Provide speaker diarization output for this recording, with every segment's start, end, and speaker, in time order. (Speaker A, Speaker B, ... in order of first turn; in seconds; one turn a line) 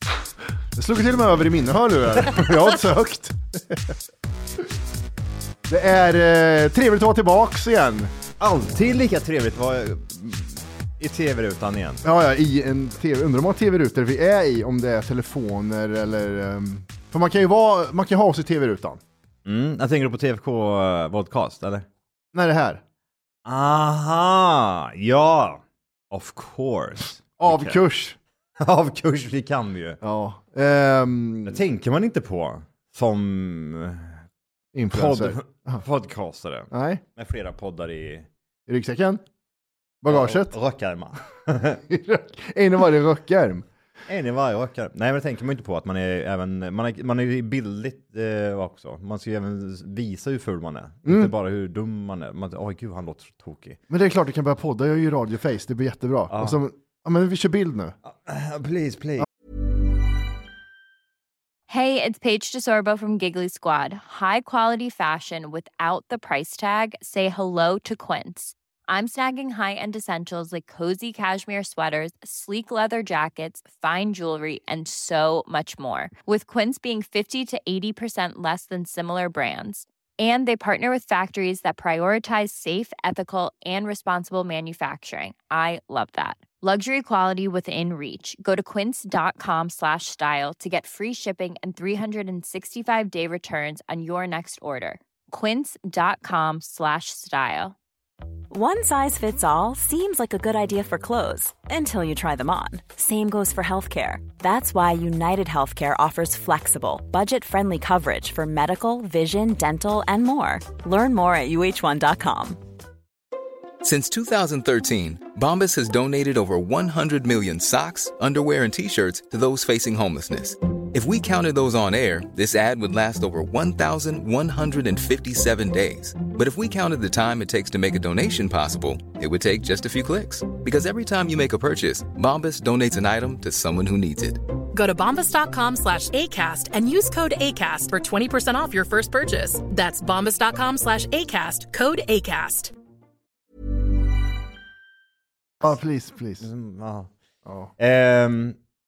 Speaker A: 0.7-4.0
Speaker A: 5.7-8.1
Speaker B: 8.4-12.0
Speaker A: 12.0-19.0
Speaker B: 19.4-21.9
Speaker A: 22.3-22.8
Speaker B: 23.4-27.8
Speaker A: 27.4-28.2
Speaker B: 28.6-30.0
Speaker A: 30.0-31.6
Speaker B: 31.4-34.2
Speaker A: 34.7-35.8
Speaker B: 34.9-38.3
Speaker A: 36.7-37.0
Speaker A: 38.7-39.2
Speaker A: 40.0-40.5
Speaker B: 40.1-41.8
Speaker A: 41.9-43.6
Speaker B: 44.1-53.8
Speaker A: 51.0-51.3
Speaker A: 53.9-58.0
Speaker B: 56.3-56.6
Speaker B: 58.0-59.3
Speaker C: 61.7-97.8
Speaker D: 98.5-112.6
Speaker E: 113.8-134.4
Speaker F: 134.7-142.7
Speaker A: 145.6-146.4
Speaker B: 146.4-147.1
Speaker A: 147.4-147.7
Speaker B: 147.8-148.6